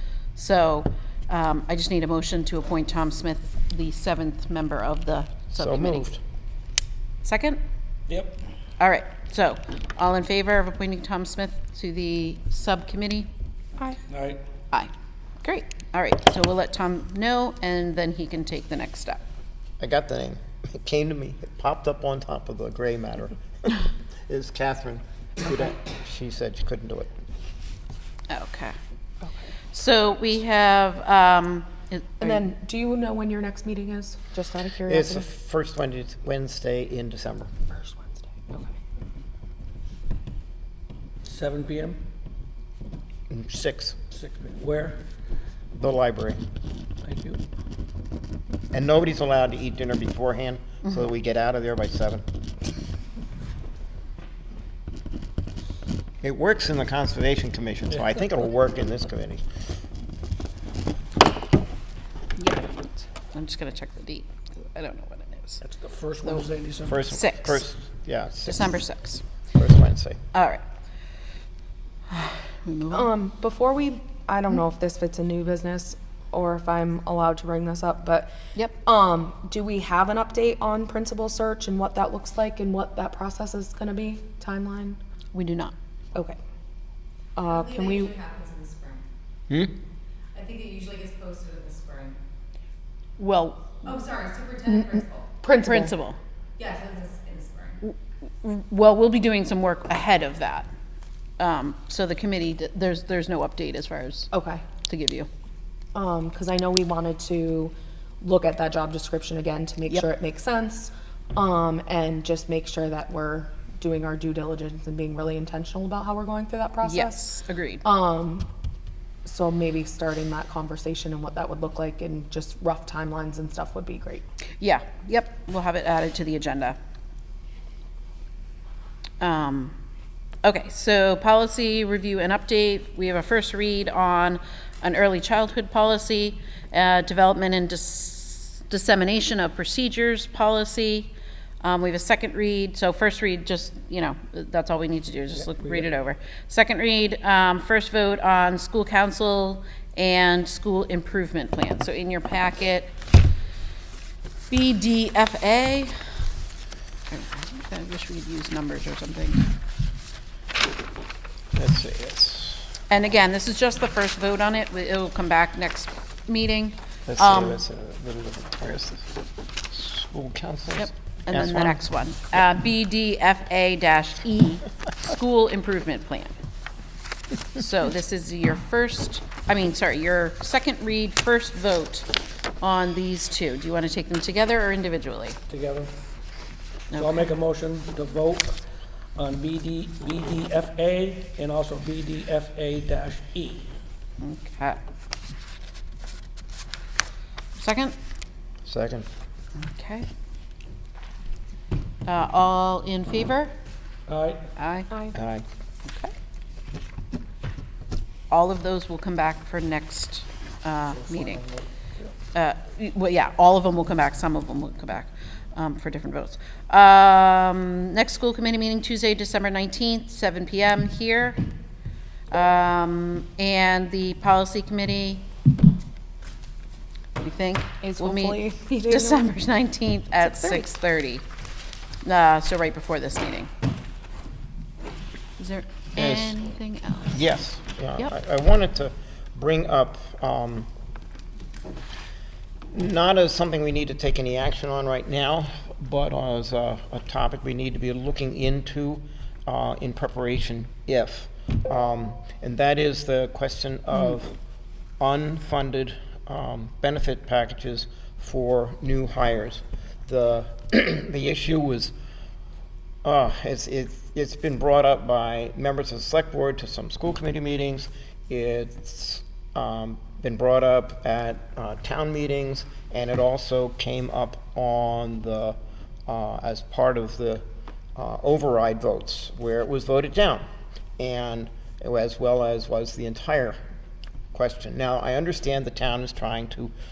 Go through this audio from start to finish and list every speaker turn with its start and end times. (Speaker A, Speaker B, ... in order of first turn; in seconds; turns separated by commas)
Speaker A: 0.3-6.1, Speaker B: 5.5-6.2, Speaker A: 7.2-7.6, Speaker C: 8.1-8.4, Speaker A: 8.8-13.3, Speaker C: 14.1-14.4, Speaker A: 15.4-19.2, Speaker B: 19.8-27.1, Speaker A: 28.3-28.8, Speaker A: 29.7-32.5, Speaker D: 32.2-35.2, Speaker B: 34.9-37.5, Speaker D: 37.7-38.7, Speaker C: 41.2-42.0, Speaker B: 43.3-44.0, Speaker C: 44.1-45.0, Speaker B: 45.8-46.4, Speaker C: 47.0-47.4, Speaker B: 48.7-52.2, Speaker B: 56.2-59.4, Speaker A: 62.4-65.6, Speaker C: 65.6-67.0, Speaker B: 66.9-68.8, Speaker A: 67.1-67.6, Speaker A: 68.5-69.2, Speaker B: 69.5-70.2, Speaker A: 70.3-70.6, Speaker A: 72.1-73.1, Speaker D: 72.9-85.0, Speaker A: 85.3-85.8, Speaker D: 87.4-88.3, Speaker E: 87.7-89.0, Speaker E: 90.4-92.2, Speaker A: 93.2-94.0, Speaker E: 94.0-95.1, Speaker D: 94.7-96.0, Speaker A: 95.6-96.2, Speaker E: 96.6-97.8, Speaker A: 97.8-100.7, Speaker A: 101.4-105.3, Speaker D: 104.3-104.6, Speaker D: 106.0-117.3, Speaker A: 116.8-117.8, Speaker D: 117.8-118.5, Speaker D: 119.2-124.2, Speaker A: 124.6-126.8, Speaker A: 129.2-129.8, Speaker A: 130.4-152.9, Speaker C: 145.4-145.9, Speaker A: 154.5-155.9, Speaker A: 157.1-159.5, Speaker B: 161.5-162.7, Speaker A: 162.9-167.6, Speaker B: 167.1-169.1, Speaker B: 169.7-171.8, Speaker A: 170.8-176.3, Speaker A: 177.6-185.4, Speaker C: 185.5-185.9, Speaker A: 186.9-187.2, Speaker C: 186.9-188.6, Speaker C: 189.2-193.7, Speaker A: 194.2-194.8, Speaker A: 197.6-198.0, Speaker B: 198.7-199.1, Speaker A: 199.6-200.1, Speaker A: 202.1-203.5, Speaker C: 204.1-204.5, Speaker A: 204.6-204.9, Speaker D: 204.9-205.2, Speaker B: 205.1-205.5, Speaker A: 205.9-206.1, Speaker A: 208.3-211.4, Speaker C: 210.9-212.2, Speaker A: 212.3-221.4, Speaker A: 222.3-225.2, Speaker A: 227.2-231.2, Speaker D: 227.8-229.3, Speaker D: 230.2-230.7, Speaker A: 232.0-233.5, Speaker A: 235.4-237.2, Speaker B: 236.0-236.4, Speaker B: 237.1-240.7, Speaker B: 242.7-254.3, Speaker B: 255.0-261.9, Speaker B: 263.0-277.4, Speaker B: 278.0-280.5, Speaker B: 281.0-283.6, Speaker B: 284.3-286.7